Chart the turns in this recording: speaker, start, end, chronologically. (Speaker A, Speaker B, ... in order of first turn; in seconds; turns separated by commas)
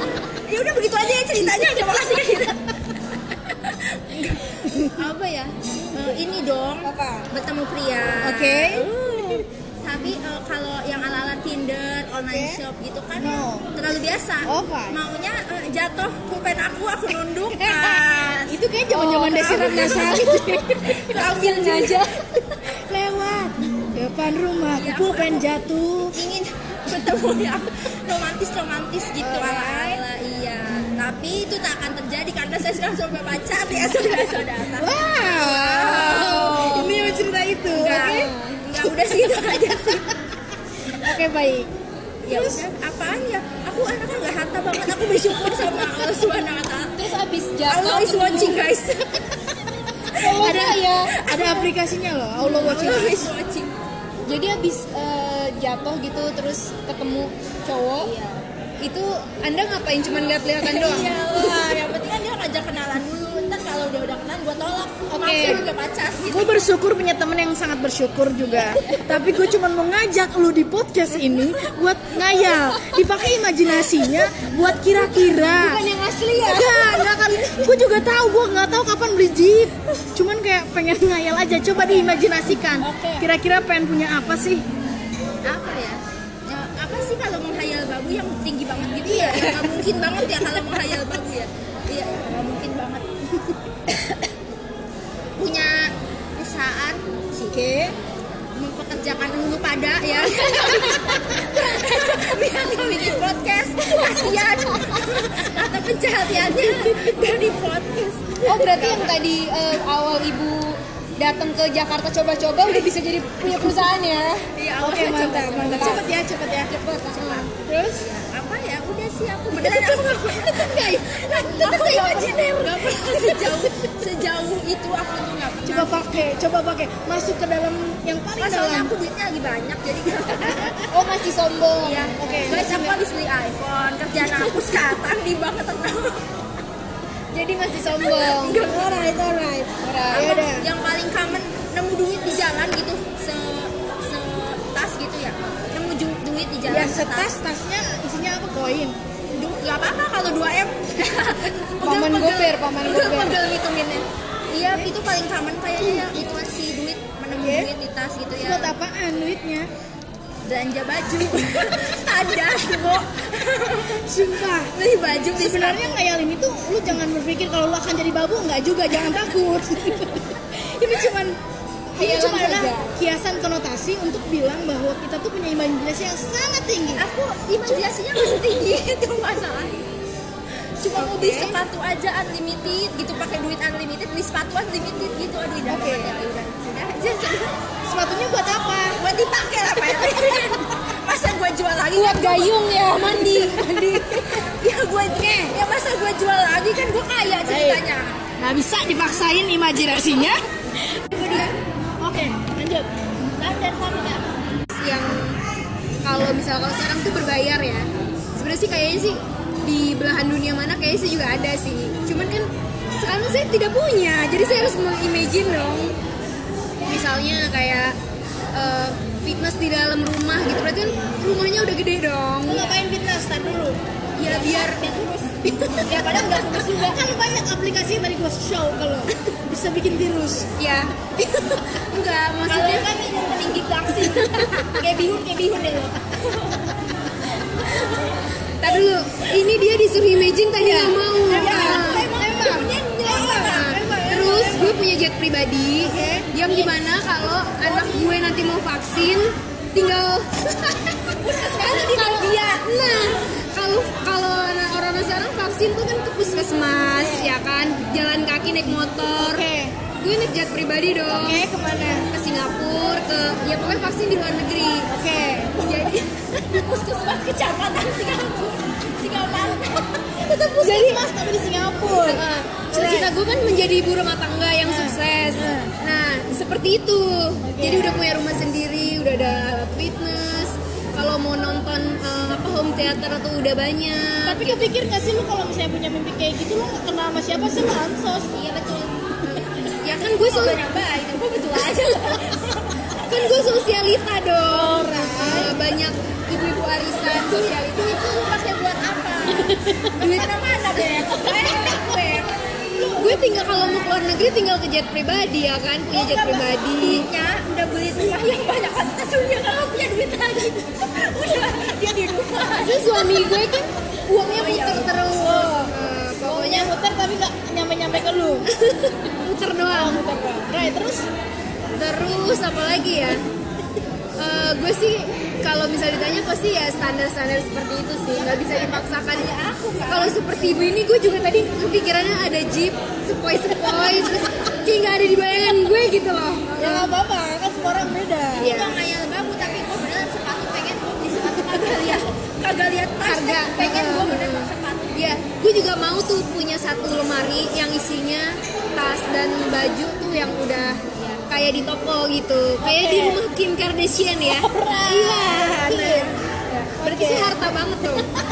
Speaker A: 0.4-2.6, Speaker A: 3.6-18.6, Speaker B: 4.6-5.0, Speaker B: 6.8-7.3, Speaker B: 8.2-8.9, Speaker B: 12.3-12.6, Speaker B: 13.2-13.7, Speaker B: 14.4-15.0, Speaker B: 17.5-21.2, Speaker C: 18.9-20.4, Speaker A: 19.5-22.1, Speaker C: 21.1-22.4, Speaker B: 22.9-26.1, Speaker A: 24.7-25.4, Speaker A: 26.1-37.2, Speaker B: 29.2-30.0, Speaker B: 34.8-38.3, Speaker A: 37.7-40.1, Speaker C: 37.7-38.8, Speaker B: 40.9-41.7, Speaker A: 42.2-47.0, Speaker B: 42.3-42.6, Speaker C: 46.9-48.7, Speaker A: 47.7-49.5, Speaker A: 50.1-51.7, Speaker C: 50.2-51.1, Speaker B: 50.2-53.3, Speaker A: 52.4-53.7, Speaker C: 54.2-58.1, Speaker A: 58.0-58.4, Speaker C: 58.8-61.8, Speaker A: 60.6-66.7, Speaker C: 65.1-65.7, Speaker B: 65.3-65.6, Speaker B: 66.3-75.8, Speaker A: 68.5-69.5, Speaker A: 71.5-73.2, Speaker C: 75.1-77.1, Speaker B: 76.4-84.6, Speaker A: 82.8-83.3, Speaker A: 85.4-93.6, Speaker B: 89.1-89.7, Speaker A: 95.4-97.6, Speaker B: 97.5-97.9, Speaker A: 98.5-108.7, Speaker C: 108.4-114.4, Speaker B: 108.6-109.2, Speaker A: 112.6-112.9, Speaker A: 114.5-116.1, Speaker B: 114.8-116.7, Speaker C: 115.5-116.0, Speaker C: 116.6-117.5, Speaker A: 117.2-117.5, Speaker B: 117.5-118.0, Speaker A: 118.0-126.1, Speaker B: 119.5-123.9, Speaker B: 125.7-128.9, Speaker A: 128.4-130.9, Speaker C: 130.9-132.9, Speaker A: 131.8-136.2, Speaker B: 132.2-132.9, Speaker C: 137.3-138.9, Speaker A: 138.0-147.3, Speaker B: 139.0-139.3, Speaker C: 139.8-140.3, Speaker B: 140.1-140.7, Speaker B: 146.7-148.9, Speaker A: 149.3-158.8, Speaker C: 151.8-153.4, Speaker B: 157.4-157.7, Speaker B: 158.4-159.7, Speaker A: 160.4-164.1, Speaker B: 163.9-164.7, Speaker A: 164.7-166.0, Speaker B: 165.3-171.4, Speaker B: 171.9-177.1, Speaker C: 172.0-172.9, Speaker A: 176.9-179.8, Speaker A: 180.8-187.6, Speaker C: 180.9-181.6, Speaker B: 181.2-181.5, Speaker B: 185.7-186.2, Speaker B: 187.8-189.0, Speaker A: 188.9-192.6, Speaker C: 191.9-194.4, Speaker B: 193.3-193.6, Speaker A: 194.6-198.2, Speaker B: 197.4-197.8, Speaker B: 198.4-200.4, Speaker A: 201.1-201.6, Speaker B: 202.0-202.9, Speaker B: 203.4-204.2, Speaker A: 203.8-204.2, Speaker C: 204.8-205.4, Speaker C: 206.0-215.9, Speaker C: 216.9-217.9, Speaker C: 218.5-222.8, Speaker B: 222.4-223.8, Speaker C: 224.2-224.9, Speaker A: 224.2-227.0, Speaker C: 225.6-226.4, Speaker B: 226.7-230.5, Speaker C: 230.6-230.9, Speaker A: 231.2-231.7, Speaker C: 231.7-232.9, Speaker A: 232.4-236.8, Speaker C: 234.0-234.7, Speaker C: 238.6-242.6, Speaker A: 240.7-243.8, Speaker B: 241.3-244.8, Speaker C: 243.3-259.4, Speaker B: 245.8-246.3, Speaker A: 246.4-246.8, Speaker A: 247.6-248.2, Speaker A: 251.2-252.7, Speaker B: 259.2-259.7, Speaker C: 260.0-261.5, Speaker B: 261.1-262.1, Speaker C: 262.1-264.9, Speaker B: 264.9-265.6, Speaker C: 265.6-266.1, Speaker A: 265.9-270.0, Speaker C: 270.2-271.1, Speaker B: 270.6-273.1, Speaker C: 271.9-284.7, Speaker B: 274.6-275.7, Speaker B: 277.4-278.1, Speaker B: 284.2-288.3, Speaker A: 288.3-293.5, Speaker C: 289.2-290.6, Speaker C: 291.5-292.2, Speaker C: 293.0-298.2, Speaker B: 294.5-295.6, Speaker A: 297.2-303.4, Speaker C: 299.9-300.3, Speaker C: 302.9-307.1, Speaker A: 305.9-313.1, Speaker C: 312.6-316.7, Speaker A: 314.2-315.1, Speaker B: 315.1-315.7, Speaker B: 316.2-318.5, Speaker C: 318.5-320.0, Speaker B: 319.7-321.1, Speaker C: 321.7-323.2, Speaker C: 324.2-329.3, Speaker B: 328.1-328.8, Speaker A: 329.1-330.2, Speaker C: 329.9-337.0, Speaker A: 333.7-334.1, Speaker B: 336.6-338.5, Speaker C: 338.4-338.8, Speaker A: 338.4-344.9, Speaker C: 343.0-358.1, Speaker A: 350.9-351.2, Speaker B: 352.6-353.2, Speaker B: 354.2-356.2, Speaker B: 356.7-357.4